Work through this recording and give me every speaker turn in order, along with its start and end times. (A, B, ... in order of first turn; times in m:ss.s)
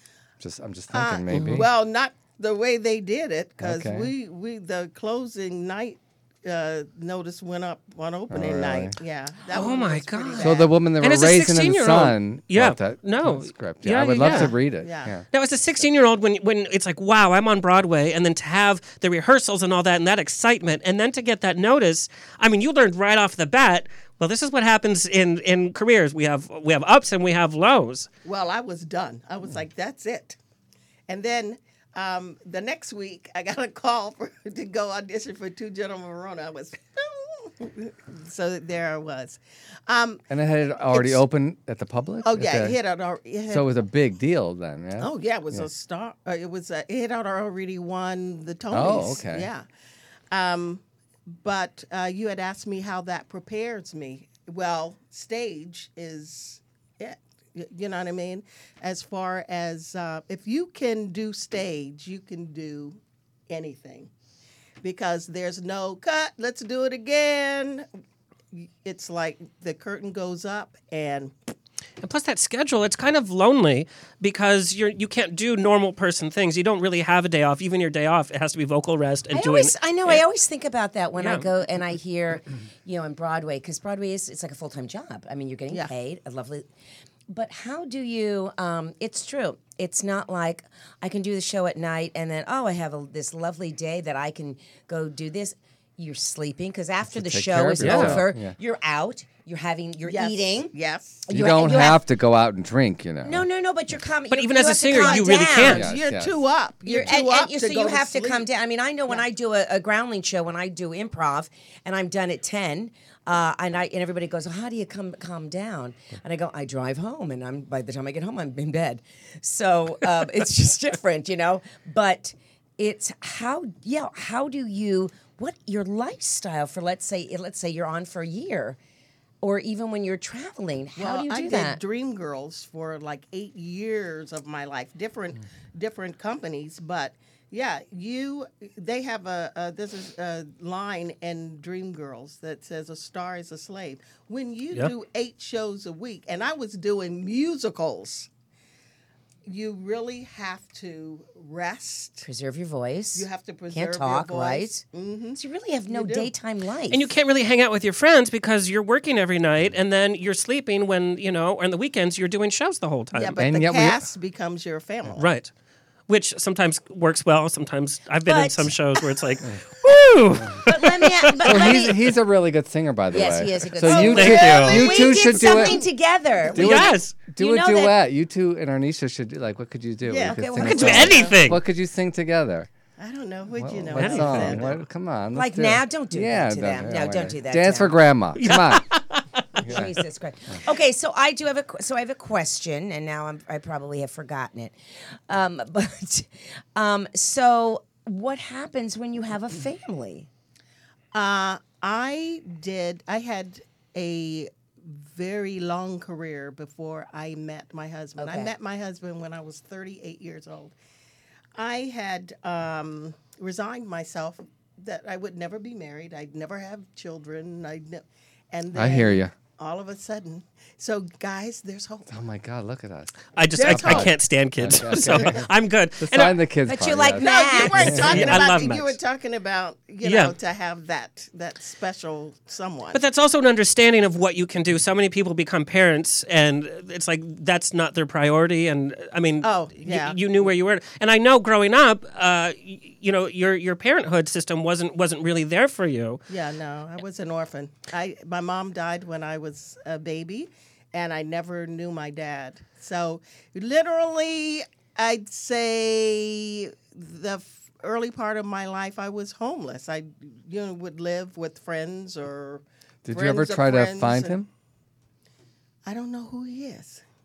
0:00.4-0:01.7 A
0:00.9-0:10.7 B
0:01.3-0:01.6 C
0:03.6-0:04.1 A
0:08.3-0:09.0 A
0:09.5-0:14.5 C
0:10.4-0:15.2 A
0:14.3-0:15.2 B
0:15.3-0:28.1 C
0:28.2-0:30.4 B
0:31.1-0:40.2 B
0:40.3-0:42.8 A
0:40.9-0:41.2 B
0:42.2-0:43.7 B
0:43.5-0:45.7 A
0:45.0-0:49.6 B
0:48.7-0:49.5 A
0:50.3-1:04.1 B
1:04.8-1:07.9 B
1:08.5-1:11.3 B
1:12.0-1:20.2 C
1:19.3-1:26.7 D
1:21.2-1:21.5 C
1:27.3-1:40.7 D
1:37.1-1:38.6 A
1:37.8-1:38.2 C
1:40.0-1:41.2 B
1:41.3-1:42.0 D
1:41.3-1:44.0 A
1:43.2-1:45.9 D
1:44.3-1:45.9 C
1:44.9-1:48.5 B
1:45.6-1:46.3 A
1:46.9-2:08.8 D
2:09.4-2:11.8 D
2:11.0-2:28.3 B
2:29.5-2:32.3 B
2:32.2-2:34.8 D
2:33.2-2:36.3 B
2:35.4-2:37.1 D
2:36.9-2:43.3 C
2:43.1-2:45.2 B
2:43.4-2:44.0 A
2:45.2-2:45.5 C
2:46.1-2:51.7 C
2:48.3-2:48.7 D
2:50.6-2:52.0 D
2:51.4-2:55.8 A
2:53.1-2:58.0 D
2:53.8-2:55.9 B
2:53.9-2:54.8 C
2:56.5-3:02.7 A
2:56.6-2:57.2 C
3:00.0-3:01.4 B
3:00.2-3:01.2 D
3:00.6-3:01.6 C
3:03.0-3:04.8 B
3:03.5-3:08.9 A
3:04.0-3:04.8 C
3:05.3-3:07.9 D
3:08.4-3:09.5 C
3:09.6-3:10.0 A
3:09.6-3:14.8 D
3:15.3-3:20.3 D
3:21.1-3:30.7 B
3:28.2-3:28.5 D
3:31.6-3:42.1 B
3:38.7-3:39.3 A
3:42.1-3:45.5 A
3:43.4-3:46.4 C
3:43.6-3:44.1 B
3:44.9-3:45.3 B
3:46.0-3:48.4 A
3:46.7-3:48.3 D
3:47.2-3:53.0 B
3:47.9-3:49.0 C
3:50.0-3:50.3 C
3:52.9-4:06.2 C
3:59.4-4:00.2 B
4:06.3-4:24.4 B
4:23.0-4:24.5 A
4:25.9-4:27.0 B